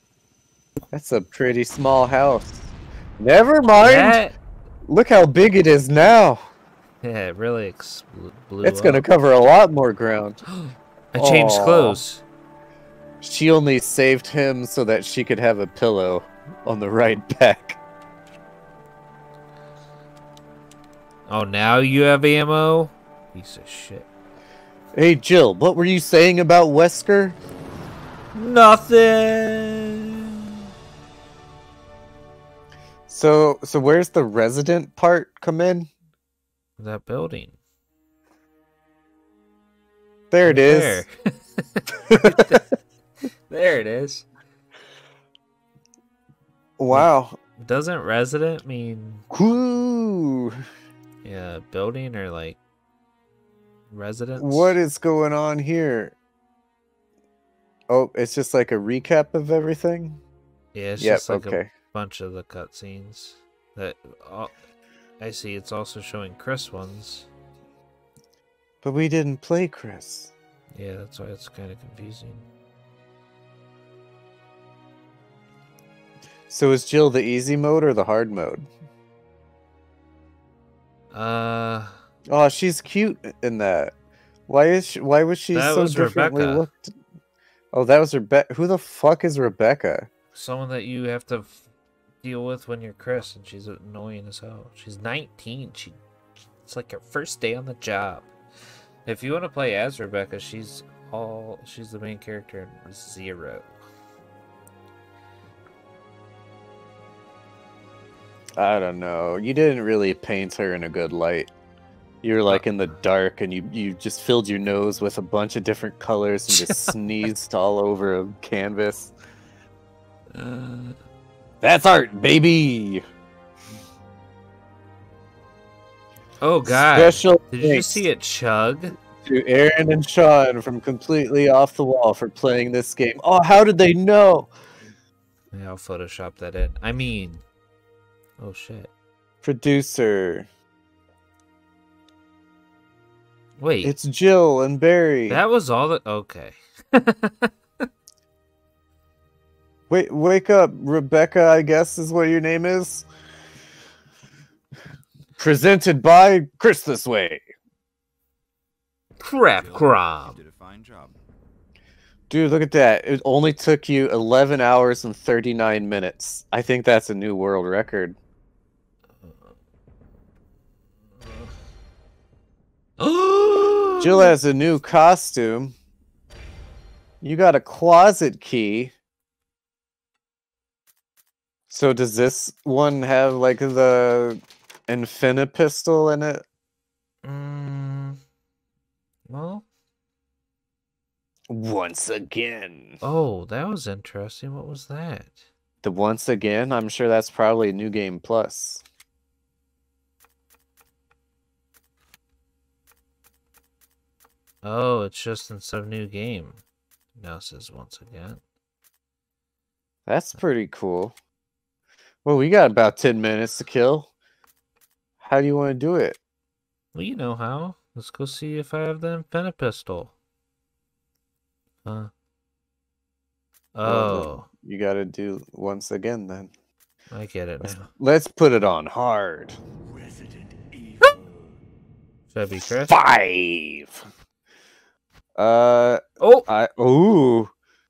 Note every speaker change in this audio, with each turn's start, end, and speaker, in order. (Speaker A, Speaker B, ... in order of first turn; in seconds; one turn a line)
Speaker A: 0.9-2.7
Speaker A: 3.2-4.2
Speaker B: 3.8-4.4
Speaker A: 4.9-6.5
Speaker B: 7.0-9.1
Speaker A: 8.6-10.4
Speaker B: 10.5-12.2
Speaker A: 11.2-12.0
Speaker A: 13.2-17.8
Speaker B: 21.3-24.1
Speaker A: 24.9-27.4
Speaker B: 28.4-30.2
Speaker A: 33.1-35.9
Speaker B: 36.8-37.6
Speaker A: 40.3-41.0
Speaker B: 40.5-42.7
Speaker A: 42.1-42.6
Speaker B: 43.5-44.2
Speaker A: 46.8-47.4
Speaker B: 46.9-49.3
Speaker A: 49.3-50.6
Speaker B: 51.2-52.6
Speaker B: 53.9-54.8
Speaker A: 54.4-56.1
Speaker A: 57.9-60.2
Speaker B: 60.7-64.5
Speaker A: 61.0-61.7
Speaker B: 65.2-67.3
Speaker A: 68.8-70.3
Speaker B: 70.7-72.5
Speaker A: 76.5-78.7
Speaker B: 81.1-82.0
Speaker A: 82.3-83.9
Speaker A: 84.5-86.9
Speaker B: 85.5-86.7
Speaker A: 87.7-90.1
Speaker B: 90.3-91.7
Speaker B: 92.2-96.0
Speaker B: 96.7-98.3
Speaker B: 99.0-103.8
Speaker A: 108.6-111.5
Speaker A: 112.2-119.1
Speaker B: 116.5-117.0
Speaker B: 120.3-121.0
Speaker A: 121.6-123.0
Speaker B: 126.4-129.0
Speaker A: 126.7-128.1
Speaker A: 129.2-134.5
Speaker B: 135.5-137.4
Speaker B: 138.4-138.9
Speaker A: 139.4-140.5
Speaker B: 143.6-143.9
Speaker A: 143.8-145.4
Speaker B: 145.3-147.5
Speaker A: 149.9-153.1
Speaker A: 155.4-157.4
Speaker B: 159.2-160.4
Speaker C: 159.4-161.2
Speaker A: 162.3-168.2
Speaker B: 171.2-171.5
Speaker B: 173.0-174.3
Speaker A: 174.0-175.8
Speaker A: 177.2-178.9
Speaker A: 181.7-186.4
Speaker B: 187.2-188.2
Speaker B: 189.3-189.7
Speaker A: 191.5-193.0
Speaker B: 193.0-195.4
Speaker A: 195.8-198.8
Speaker B: 204.6-206.6
Speaker B: 207.2-208.4
Speaker A: 210.1-211.1
Speaker A: 212.2-214.1
Speaker A: 215.2-216.2
Speaker B: 216.9-220.1
Speaker B: 221.8-222.1
Speaker B: 223.7-224.5
Speaker A: 223.8-226.5
Speaker B: 227.1-227.9
Speaker A: 227.6-229.6
Speaker C: 229.9-231.6
Speaker B: 232.3-233.0
Speaker A: 232.7-234.1
Speaker A: 235.3-237.5
Speaker B: 236.2-236.5